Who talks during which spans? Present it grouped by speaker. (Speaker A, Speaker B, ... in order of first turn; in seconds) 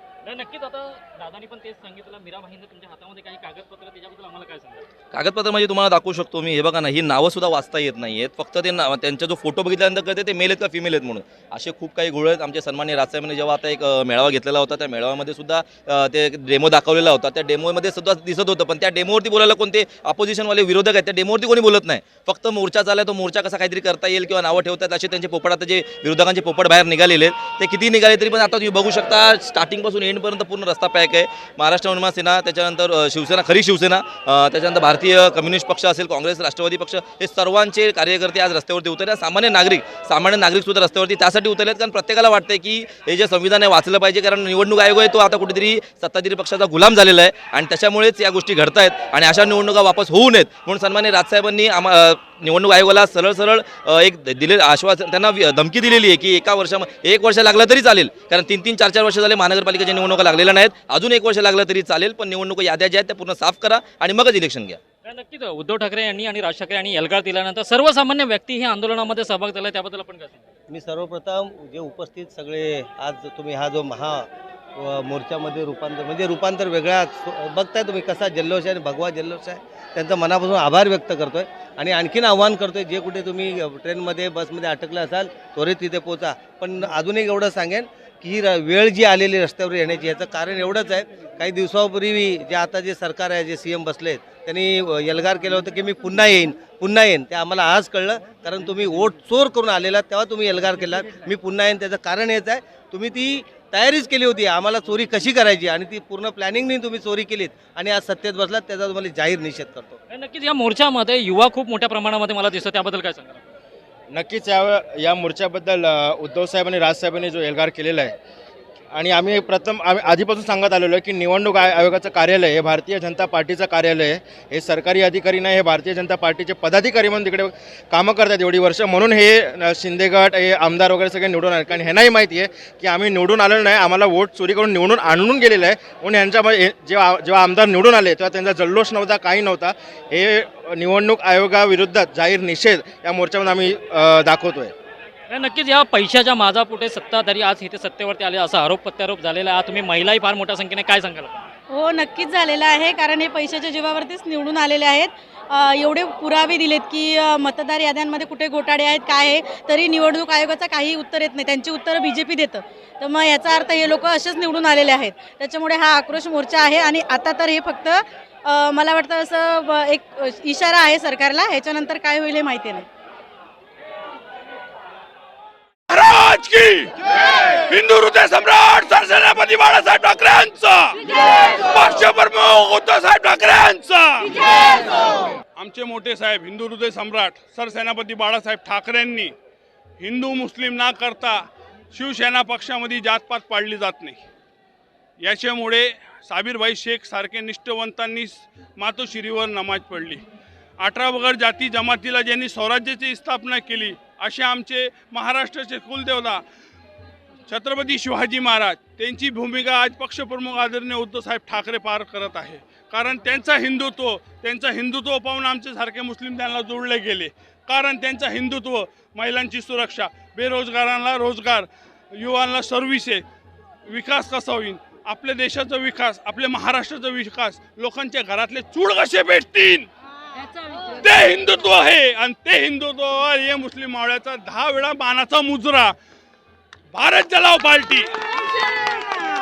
Speaker A: 0.2-4.8, 65.0-70.5, 110.1-113.4, 145.3-151.3
Speaker B: 5.1-64.8
Speaker C: 70.7-110.0
Speaker D: 114.1-118.2, 118.9-144.7
Speaker E: 151.7-172.8
Speaker F: 175.9-176.9, 177.7-180.9, 181.6-184.4, 185.6-189.3, 190.0-191.4, 191.9-194.2, 195.2-200.2, 200.8-206.4, 207.5-223.2, 223.9-229.9, 231.0-235.9, 236.9-238.1